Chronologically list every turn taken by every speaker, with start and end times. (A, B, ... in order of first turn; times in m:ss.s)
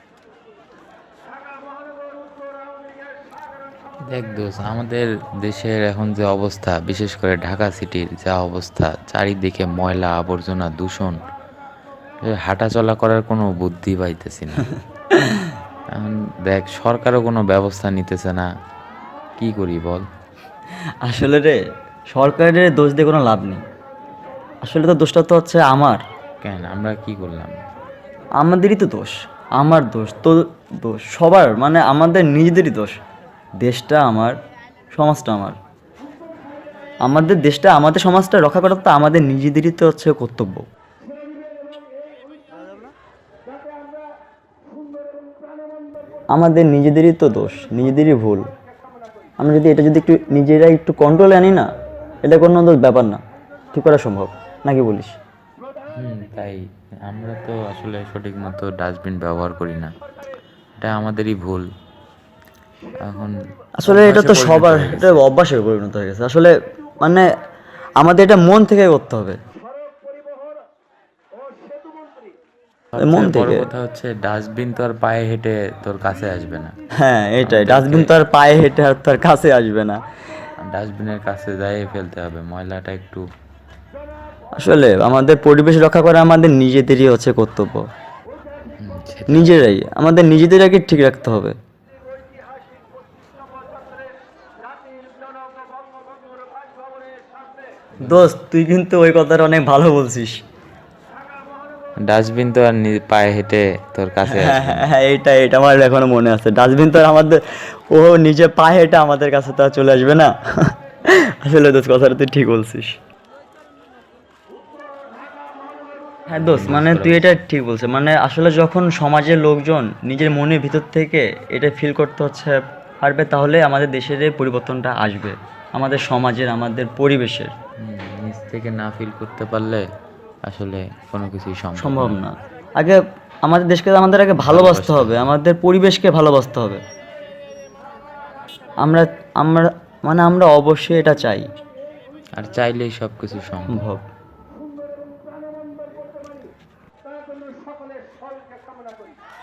0:04.0-0:11.2 A
0:12.2-0:14.7 A
0:15.1-0:15.5 B
0:15.9-0:18.5 A
0:19.4-0:20.0 A
0:21.0-0:21.6 B
0:22.1-0:23.6 B
0:24.6-0:26.0 B
0:26.4-0:27.6 A
0:28.4-0:33.0 B
0:33.6-0:34.4 B
0:34.9-0:35.6 B
0:37.0-0:40.6 B
0:46.3-0:48.5 B
0:49.4-0:51.7 B
0:52.2-0:53.2 B
0:53.7-0:55.2 B
0:56.0-0:59.9 A
1:00.8-1:01.6 A
1:03.0-1:05.2 A
1:03.8-1:07.2 B
1:08.0-1:09.4 B
1:12.9-1:16.7 A
1:13.0-1:13.7 B
1:17.0-1:20.0 B
1:17.4-1:18.1 A
1:20.6-1:23.2 A
1:24.6-1:27.8 B
1:28.8-1:29.6 A
1:29.3-1:31.5 B
1:38.0-1:38.3 A
1:38.0-1:40.4 B
1:42.0-1:44.9 A
1:44.2-1:50.7 B
1:51.4-1:53.0 B
1:56.3-2:07.5 B
1:56.3-1:57.3 A
2:07.8-2:09.8 A
2:10.4-2:12.2 A
2:11.8-2:16.8 B
2:14.4-2:15.3 A
2:18.8-2:21.5 B
2:22.4-2:23.8 A
2:23.7-2:24.0 B